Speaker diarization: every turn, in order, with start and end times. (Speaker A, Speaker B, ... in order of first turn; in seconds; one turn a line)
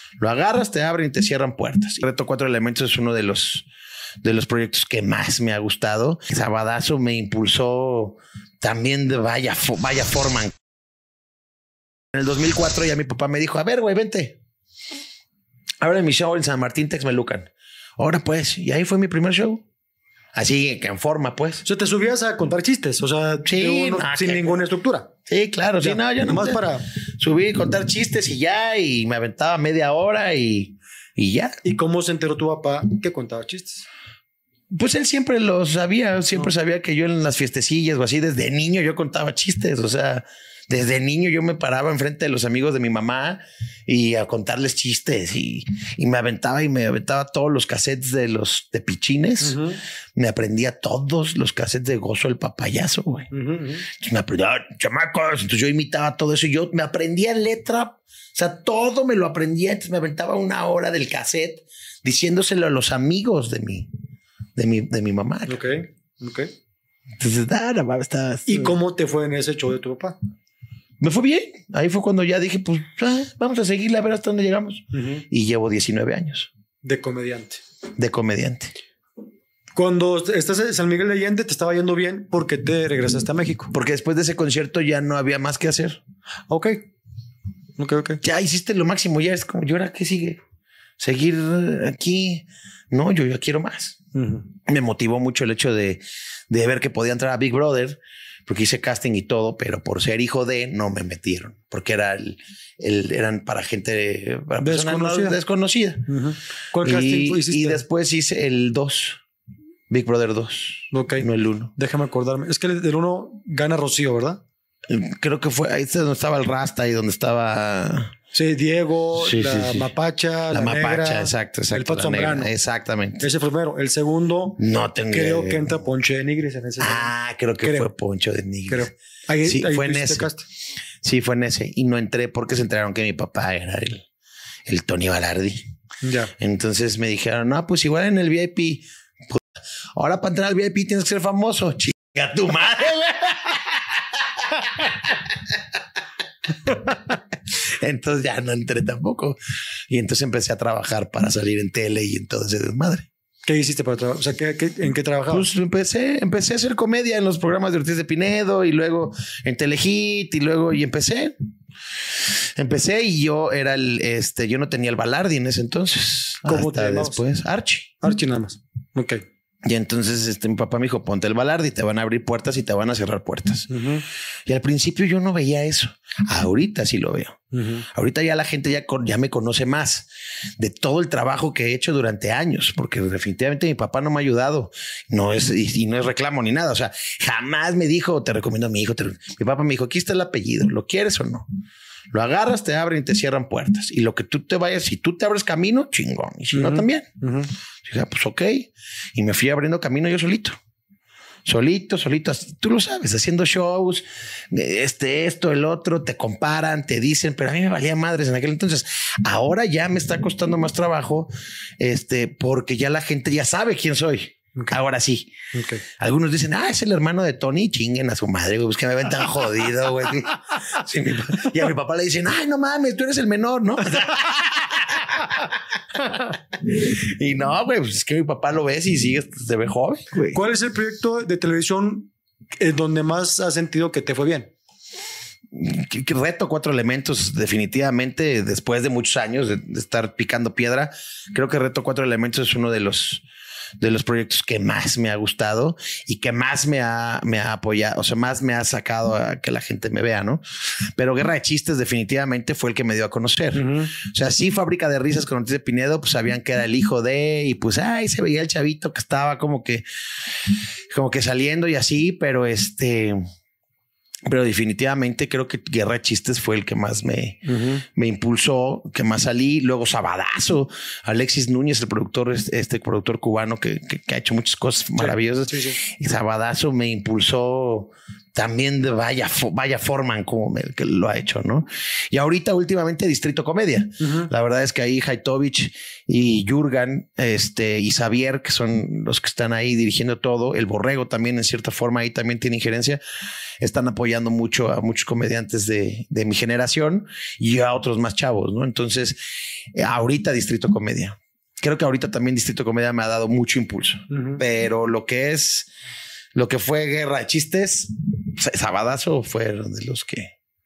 Speaker A: 0.2-3.7
Speaker A: 4.2-10.5
Speaker A: 12.1-14.4
Speaker A: 15.8-19.6
Speaker A: 20.4-21.6
Speaker B: 21.6-25.1
Speaker A: 23.4-24.6
Speaker A: 25.3-26.6
Speaker B: 25.8-26.9
Speaker A: 27.2-31.6
Speaker B: 31.6-33.9
Speaker A: 34.7-49.6
Speaker B: 49.4-49.8
Speaker A: 50.1-53.3
Speaker B: 53.3-53.9
Speaker A: 53.9-63.9
Speaker A: 64.6-65.6
Speaker B: 65.5-66.5
Speaker A: 67.2-68.8
Speaker B: 68.5-70.2
Speaker A: 71.0-76.5
Speaker B: 74.9-75.2
Speaker B: 76.8-77.6
Speaker A: 78.0-78.7
Speaker B: 79.8-83.7
Speaker A: 83.7-86.0
Speaker B: 86.5-86.9
Speaker B: 87.8-88.2
Speaker A: 88.2-90.4
Speaker A: 91.0-94.0
Speaker B: 94.2-94.5
Speaker A: 94.7-106.1
Speaker B: 104.6-105.4
Speaker B: 106.1-107.8
Speaker A: 106.8-109.2
Speaker A: 109.9-111.7
Speaker B: 110.9-114.4
Speaker A: 114.9-118.2
Speaker B: 118.3-122.5
Speaker A: 119.2-119.9
Speaker A: 120.5-123.3
Speaker B: 123.2-127.9
Speaker A: 124.6-125.8
Speaker A: 126.8-128.9
Speaker B: 128.7-130.4
Speaker A: 129.4-130.3
Speaker A: 131.0-134.1
Speaker A: 134.7-135.6
Speaker B: 136.0-136.3
Speaker A: 136.4-139.4
Speaker A: 140.0-143.8
Speaker A: 144.5-145.3
Speaker A: 146.7-147.2
Speaker A: 147.8-149.4
Speaker A: 149.9-153.1
Speaker B: 153.5-155.5
Speaker A: 155.3-161.3
Speaker A: 162.6-167.9
Speaker B: 166.5-167.2
Speaker B: 168.0-169.2
Speaker A: 169.7-173.7
Speaker B: 173.7-174.0
Speaker A: 174.5-177.4
Speaker B: 177.5-177.9
Speaker A: 177.9-191.5
Speaker A: 192.1-197.1
Speaker B: 196.5-197.5
Speaker A: 197.8-200.6
Speaker A: 201.5-215.3
Speaker B: 215.5-215.8
Speaker A: 216.0-230.4
Speaker B: 230.3-234.5
Speaker A: 235.5-243.2
Speaker A: 243.8-250.4
Speaker A: 251.0-259.8
Speaker B: 253.5-253.9
Speaker A: 260.9-263.2
Speaker A: 264.3-293.0
Speaker B: 267.5-267.8
Speaker B: 275.0-275.8
Speaker B: 284.0-284.3
Speaker A: 293.6-299.2
Speaker A: 299.7-305.7
Speaker B: 304.1-304.4
Speaker A: 306.4-310.4